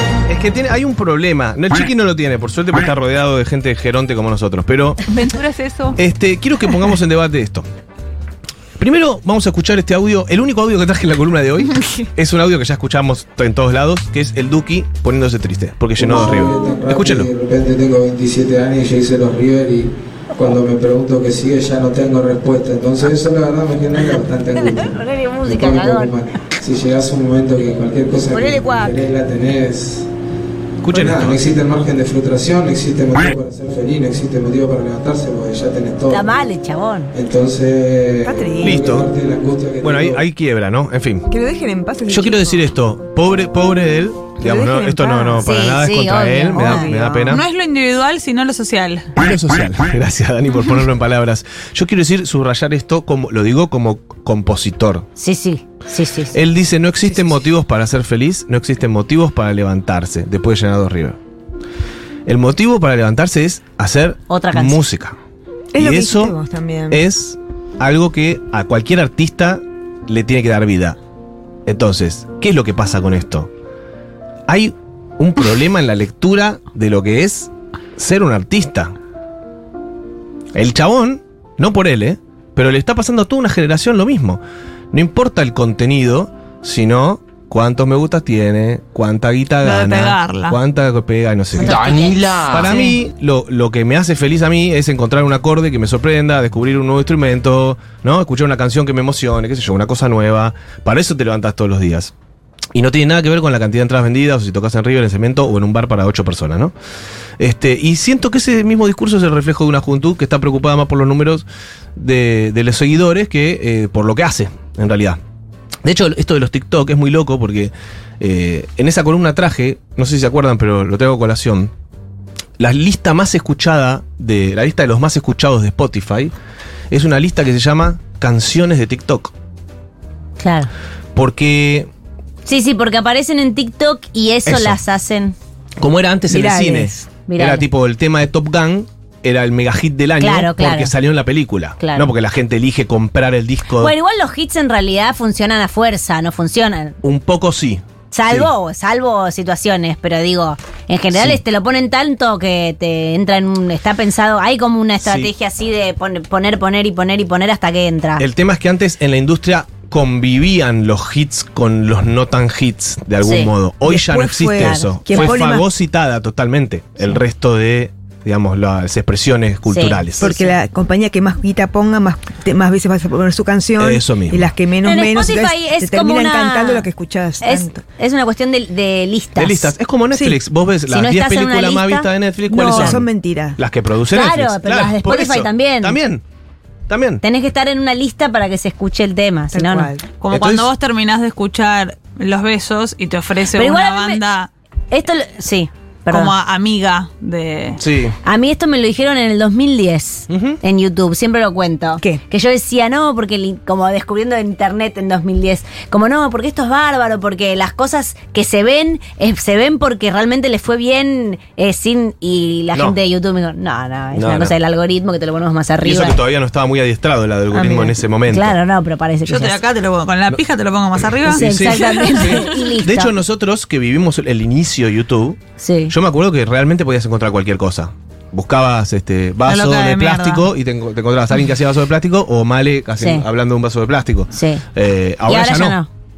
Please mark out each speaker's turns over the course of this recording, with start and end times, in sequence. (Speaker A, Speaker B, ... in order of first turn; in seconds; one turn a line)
Speaker A: 0.2-5.0
Speaker B: 5.1-6.0
Speaker A: 6.0-7.7
Speaker A: 8.8-17.3
Speaker C: 16.0-30.1
Speaker D: 24.6-26.2
Speaker E: 28.3-29.1
Speaker A: 30.8-31.4
Speaker C: 30.9-36.3
Speaker D: 36.1-37.1
Speaker C: 37.1-40.2
Speaker E: 38.2-38.8
Speaker A: 38.6-39.1
Speaker A: 39.8-41.3
Speaker E: 41.3-42.7
Speaker A: 42.1-47.5
Speaker E: 44.4-45.5
Speaker D: 45.4-46.9
Speaker E: 46.5-47.4
Speaker B: 47.3-49.1
Speaker A: 49.2-55.1
Speaker D: 55.2-56.4
Speaker A: 56.3-61.2
Speaker A: 62.3-65.2
Speaker D: 64.3-64.8
Speaker E: 65.7-67.0
Speaker A: 65.8-66.4
Speaker A: 66.9-71.0
Speaker A: 71.7-73.5
Speaker A: 74.5-79.0
Speaker A: 80.5-84.4
Speaker A: 84.9-102.1
Speaker B: 89.6-90.6
Speaker D: 91.6-92.6
Speaker B: 92.6-92.9
Speaker A: 102.7-106.7
Speaker A: 107.4-115.2
Speaker A: 115.8-121.7
Speaker A: 122.6-126.3
Speaker A: 126.9-129.3
Speaker D: 130.4-130.7
Speaker A: 131.2-131.9
Speaker D: 132.5-135.4
Speaker A: 134.5-134.8
Speaker A: 135.8-143.9
Speaker E: 136.3-137.1
Speaker D: 137.3-137.7
Speaker D: 140.2-140.9
Speaker D: 141.8-142.1
Speaker D: 143.8-147.0
Speaker A: 147.0-148.5
Speaker D: 148.1-158.3
Speaker A: 151.1-151.4
Speaker A: 155.0-155.3
Speaker A: 158.2-170.3
Speaker D: 163.2-163.5
Speaker E: 163.8-165.7
Speaker D: 164.6-165.4
Speaker D: 169.7-170.5
Speaker E: 170.2-177.8
Speaker A: 173.8-174.5
Speaker D: 174.8-176.9
Speaker D: 177.4-179.7
Speaker A: 179.4-186.2
Speaker D: 180.9-183.0
Speaker E: 182.5-183.6
Speaker D: 184.1-186.0
Speaker A: 186.9-187.2
Speaker D: 187.2-189.9
Speaker E: 189.5-190.1
Speaker B: 190.2-194.5
Speaker A: 190.3-190.7
Speaker D: 193.5-194.2
Speaker D: 194.9-196.3
Speaker B: 196.1-197.8
Speaker A: 197.8-198.2
Speaker D: 198.2-216.2
Speaker A: 200.3-200.6
Speaker A: 214.1-214.6
Speaker A: 215.8-218.6
Speaker E: 217.5-217.9
Speaker D: 218.3-219.6
Speaker B: 219.3-222.6
Speaker A: 221.2-235.8
Speaker D: 221.3-223.1
Speaker D: 225.6-225.9
Speaker B: 229.5-230.5
Speaker D: 233.0-233.2
Speaker D: 234.3-234.6
Speaker D: 235.3-235.9